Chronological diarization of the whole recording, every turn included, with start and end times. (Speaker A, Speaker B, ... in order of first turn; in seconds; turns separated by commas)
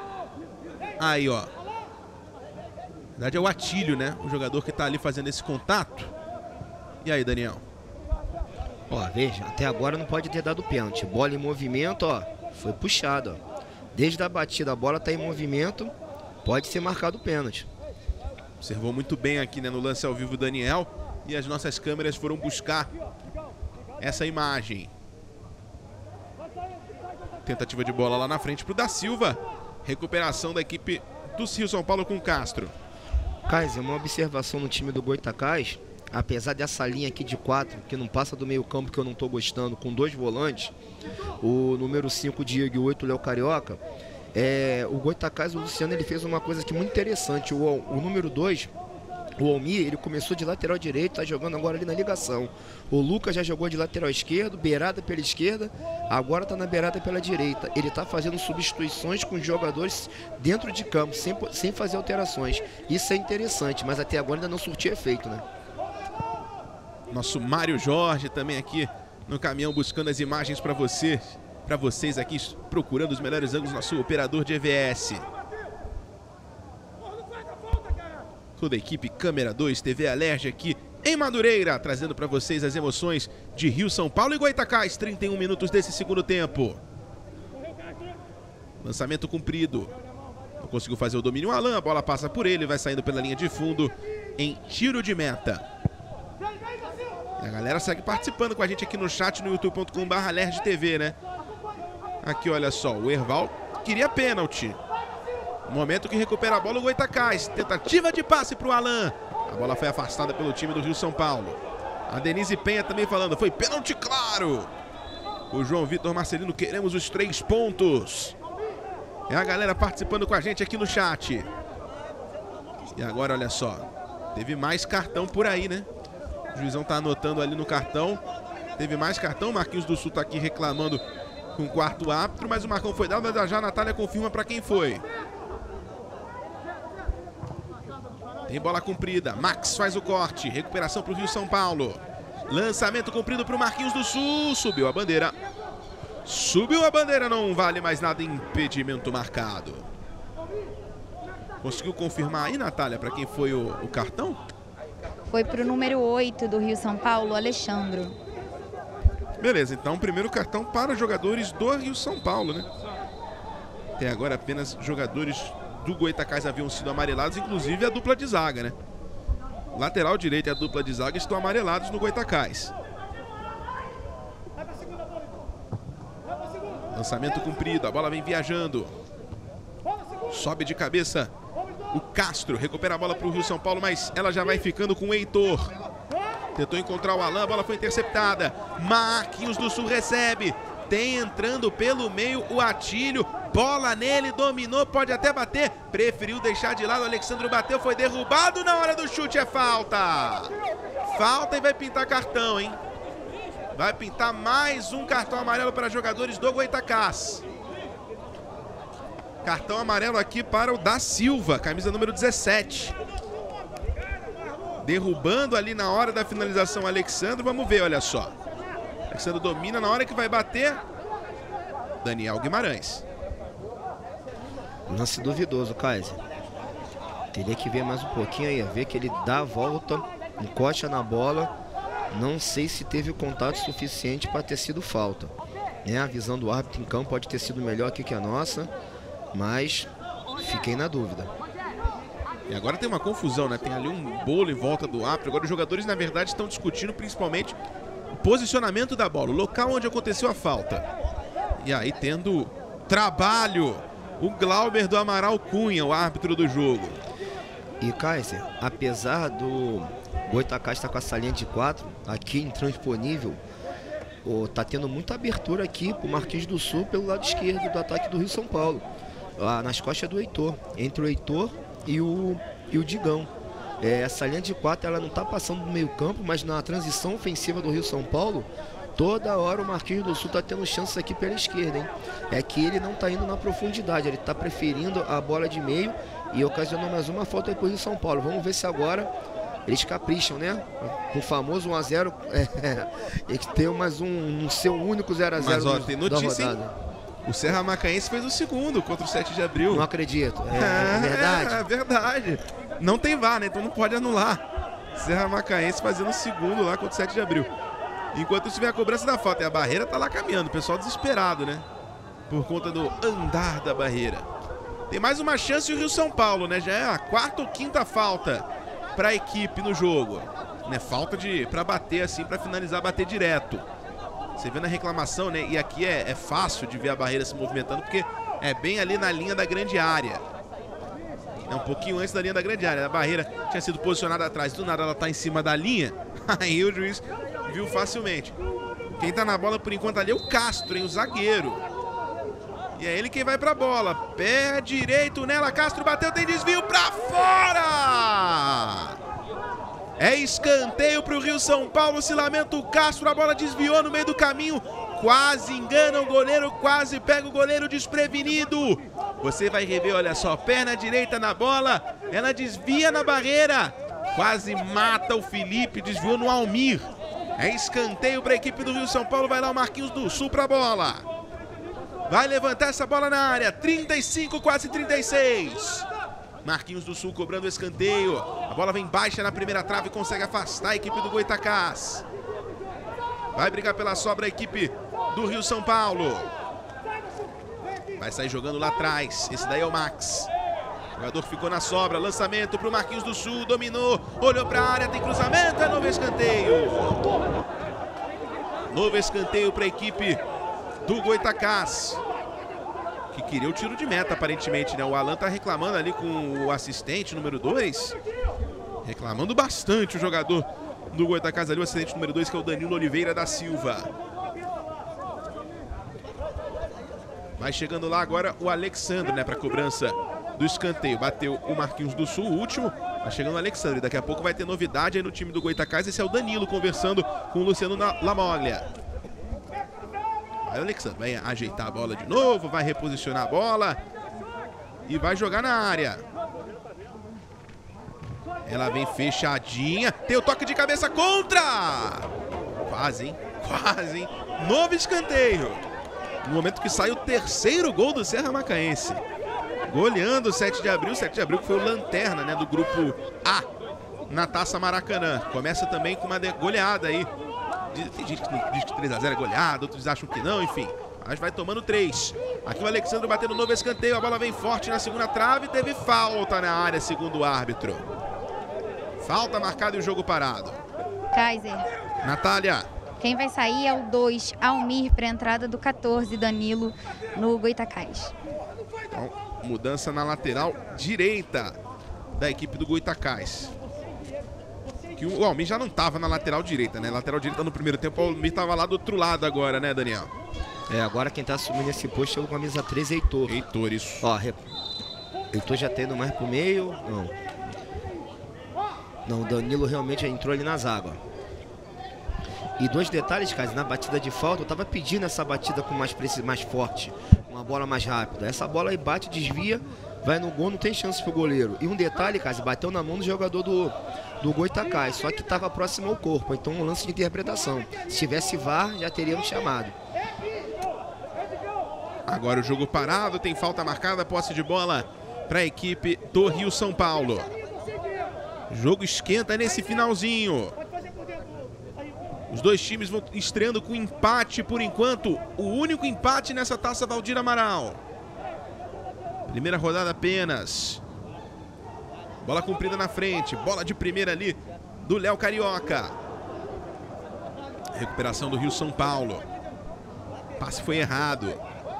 Speaker A: 1.0-1.5, Speaker A: 3.1-6.1, Speaker A: 7.0-7.6, Speaker B: 8.9-13.4, Speaker B: 13.9-15.9, Speaker B: 16.4-17.7, Speaker A: 18.6-22.9, Speaker A: 24.0-24.9, Speaker A: 27.4-32.7, Speaker B: 33.5-40.7, Speaker B: 41.4-43.8, Speaker B: 44.3-48.7, Speaker B: 49.4-65.4, Speaker A: 67.1-75.3, Speaker A: 78.6-86.8, Speaker A: 88.8-89.9, Speaker A: 90.6-95.6, Speaker A: 97.4-101.2, Speaker A: 102.2-104.8, Speaker A: 105.7-114.7, Speaker A: 115.5-118.3, Speaker A: 119.3-121.5, Speaker A: 122.9-125.9, Speaker A: 126.5-128.2, Speaker A: 128.8-131.0, Speaker A: 131.5-135.0, Speaker A: 138.5-145.3, Speaker A: 146.2-149.9, Speaker A: 151.6-154.4, Speaker C: 155.3-158.1, Speaker A: 159.4-162.7, Speaker A: 164.0-168.8, Speaker A: 169.7-172.7, Speaker A: 176.9-178.9, Speaker A: 180.3-181.3, Speaker A: 181.9-185.7, Speaker A: 186.5-202.8, Speaker A: 203.7-207.4, Speaker A: 209.4-212.9, Speaker A: 214.8-218.3, Speaker A: 219.1-220.8, Speaker A: 222.0-223.0, Speaker B: 224.9-226.2, Speaker B: 227.3-231.5, Speaker B: 232.1-238.7, Speaker B: 239.3-241.3, Speaker A: 242.5-247.6, Speaker A: 248.1-250.9, Speaker A: 251.6-257.0, Speaker B: 257.8-263.4, Speaker B: 264.2-268.9, Speaker B: 269.4-273.3, Speaker B: 273.8-289.1, Speaker B: 289.6-296.8, Speaker A: 295.4-296.6, Speaker A: 297.2-299.9, Speaker B: 299.7-301.6, Speaker A: 300.5-304.4, Speaker A: 304.9-307.5, Speaker A: 308.1-311.7, Speaker A: 312.3-314.3, Speaker A: 314.9-323.6, Speaker A: 324.4-330.2, Speaker A: 331.4-338.4, Speaker A: 339.0-341.6, Speaker A: 342.8-348.9, Speaker A: 350.0-371.0, Speaker A: 372.1-375.9, Speaker A: 376.4-382.0, Speaker A: 383.3-386.3, Speaker A: 388.0-390.3, Speaker A: 390.9-397.0, Speaker A: 398.7-400.2, Speaker A: 400.8-402.0, Speaker A: 403.1-407.9, Speaker A: 408.8-413.9, Speaker A: 417.4-428.7, Speaker A: 430.4-433.8, Speaker A: 434.9-436.0, Speaker A: 438.4-442.1, Speaker A: 442.6-445.6, Speaker A: 446.2-449.0, Speaker A: 449.6-453.5, Speaker A: 454.1-457.1, Speaker A: 457.7-467.9, Speaker A: 469.0-470.6, Speaker C: 471.1-471.7, Speaker A: 472.0-472.7, Speaker C: 473.0-478.1, Speaker A: 478.9-481.6, Speaker A: 482.1-483.5, Speaker A: 484.9-490.1, Speaker B: 490.7-493.4, Speaker A: 493.3-494.1, Speaker B: 494.0-494.4, Speaker B: 495.3-497.1, Speaker B: 499.0-501.0, Speaker B: 502.6-519.8, Speaker A: 522.1-527.3, Speaker A: 528.5-530.5, Speaker A: 532.3-537.8, Speaker A: 539.3-540.8, Speaker A: 542.2-546.0, Speaker A: 547.7-549.2, Speaker A: 550.4-551.4